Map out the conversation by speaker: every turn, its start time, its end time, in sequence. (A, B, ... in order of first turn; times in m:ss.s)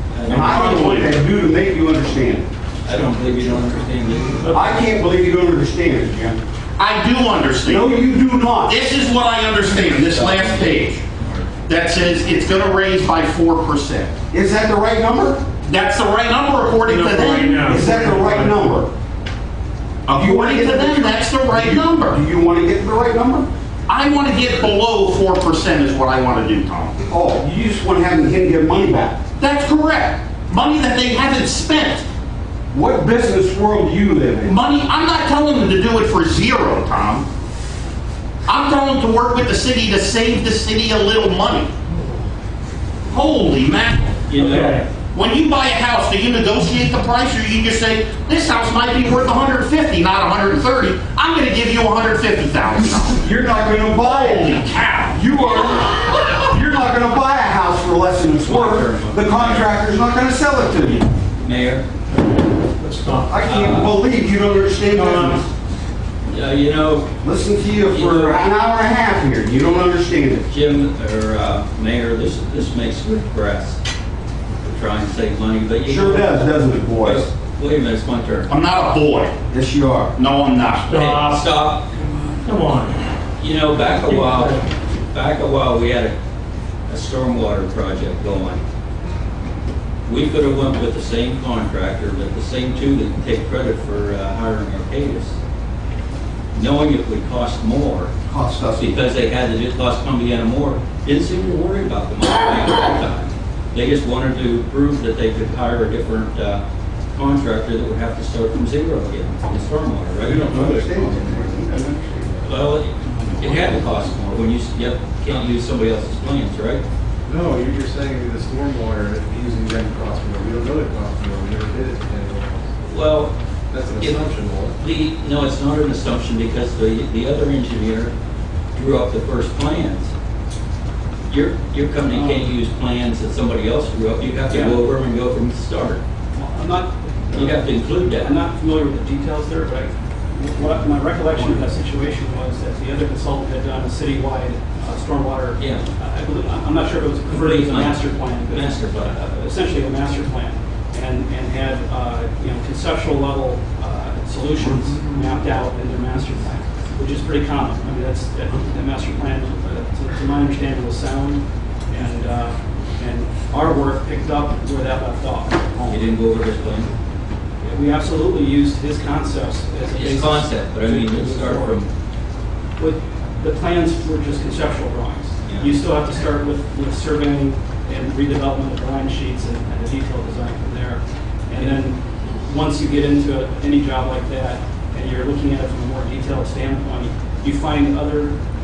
0:00.1-0:00.9 A
0:00.3-0:01.2 B
0:00.3-0:02.5 C
0:02.8-0:04.6 A
0:04.4-0:04.8 D
0:04.5-0:06.4 C
0:06.8-0:07.9 B
0:07.6-0:08.8 C
0:08.6-0:11.0 B
0:09.6-0:11.5 A
0:11.7-0:14.1 B
0:14.3-0:15.4 C
0:15.6-0:17.7 B
0:16.8-0:18.6 D
0:17.6-0:18.9 C
0:20.1-0:22.2 B
0:20.1-0:23.5 C
0:23.9-0:27.0 B
0:27.1-0:29.2 C
0:29.4-0:32.0 B
0:32.7-0:34.6 C
0:34.4-0:37.2 B
0:38.4-0:41.7 B
0:43.1-0:44.2 B
0:44.3-0:44.8 A
0:44.4-0:44.8 D
0:45.1-0:53.2 B
0:53.2-1:01.1 C
0:54.0-0:55.2 B
0:58.4-0:59.7 A
1:01.4-1:01.9 A
1:02.8-1:03.4 D
1:03.2-1:05.5 C
1:03.4-1:04.0 A
1:04.9-1:05.4 D
1:06.2-1:07.1 A
1:07.2-1:10.5 C
1:07.8-1:08.5 A
1:10.5-1:13.8 A
1:14.6-1:18.5 A
1:15.8-1:17.3 C
1:18.5-1:19.4 B
1:19.5-1:20.1 C
1:20.2-1:21.0 B
1:20.8-1:21.4 D
1:20.9-1:22.0 A
1:22.4-1:23.0 D
1:23.4-1:26.2 A
1:24.1-1:24.6 D
1:26.9-1:28.6 A
1:30.0-1:35.4 A
1:36.5-1:38.1 A
1:38.3-1:39.0 C
1:38.8-1:46.6 A
1:47.2-1:51.4 A
1:50.2-1:52.5 C
1:50.2-1:51.5 E
1:52.4-1:56.8 A
1:57.2-2:02.7 E
2:02.8-2:03.3 A
2:03.7-2:04.7 E
2:03.9-2:08.1 A
2:08.7-2:10.1 A
2:11.3-2:16.0 A
2:12.1-2:12.5 F
2:14.5-2:14.8 F
2:16.3-2:46.0 F
2:17.3-2:18.3 A
2:25.6-2:25.8 A
2:27.3-2:29.1 A
2:45.9-2:46.9 A
2:47.6-2:51.8 F
2:49.9-2:51.9 A
2:52.8-3:08.4 F
2:55.4-2:55.8 A